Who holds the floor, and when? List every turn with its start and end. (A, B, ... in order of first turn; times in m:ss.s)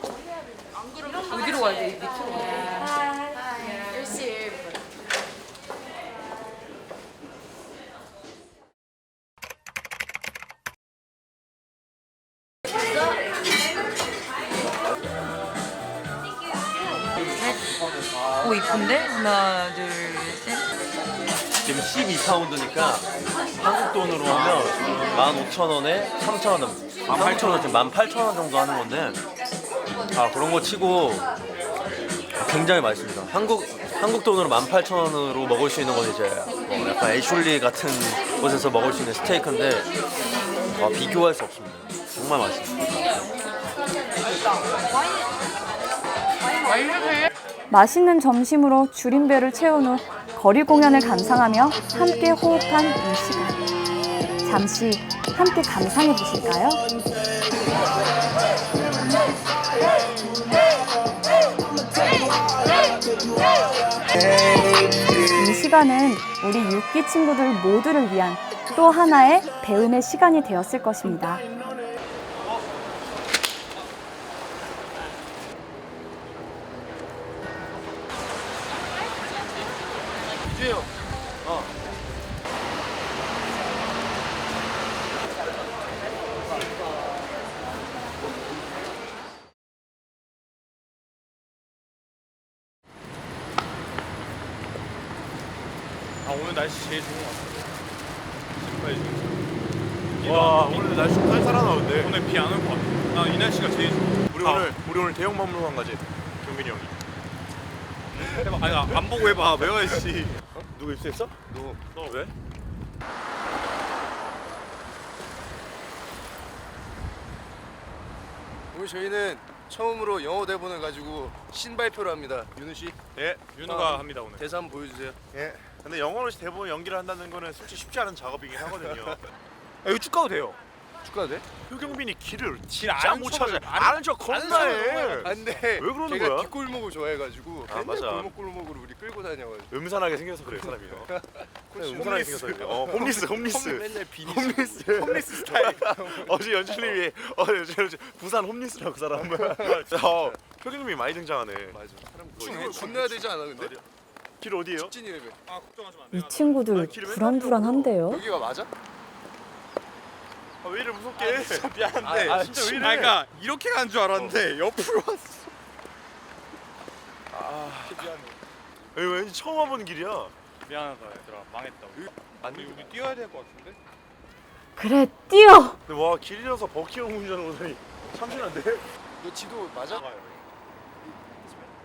0:01.3-0:02.9 A
0:03.9-0:04.1 A
0:18.4-0:20.4 A
0:18.4-0:20.6 B
0:21.6-0:29.2 C
0:30.1-0:31.3 C
0:32.4-0:39.9 C
0:40.8-0:43.0 C
0:47.7-0:53.6 D
0:54.4-0:56.8 D
1:05.3-1:11.5 D
1:36.2-1:37.8 E
1:38.6-1:39.4 E
1:40.2-1:41.1 E
1:40.2-1:42.2 F
1:42.0-1:44.8 E
1:44.3-1:46.9 F
1:46.4-1:46.9 E
1:48.1-1:50.5 E
1:50.7-1:51.4 F
1:51.5-1:51.8 G
1:52.0-1:52.3 F
1:58.7-2:03.0 G
2:03.2-2:04.5 E
2:03.6-2:05.2 G
2:05.3-2:09.2 F
2:08.7-2:09.2 G
2:09.8-2:10.6 E
2:11.0-2:11.9 G
2:11.6-2:16.6 F
2:12.7-2:15.2 E
2:14.4-2:19.7 G
2:17.7-2:18.4 F
2:19.7-2:21.1 F
2:20.5-2:27.0 G
2:21.7-2:31.8 F
2:29.3-2:30.4 G
2:31.7-2:33.8 G
2:32.3-2:33.8 F
2:34.4-2:35.0 F
2:34.8-2:35.4 G
2:35.5-2:36.8 E
2:36.1-2:38.2 D
2:36.8-2:38.0 F
2:38.1-2:38.7 G
2:40.6-2:43.2 F
2:41.2-2:45.5 E
2:42.1-2:42.8 G
2:47.3-2:48.1 F
2:47.8-2:48.4 E
2:48.9-2:50.3 F
2:50.7-2:53.8 E
2:54.8-2:55.8 D
2:55.9-2:58.8 F
2:59.2-3:00.0 G
3:00.0-3:00.4 E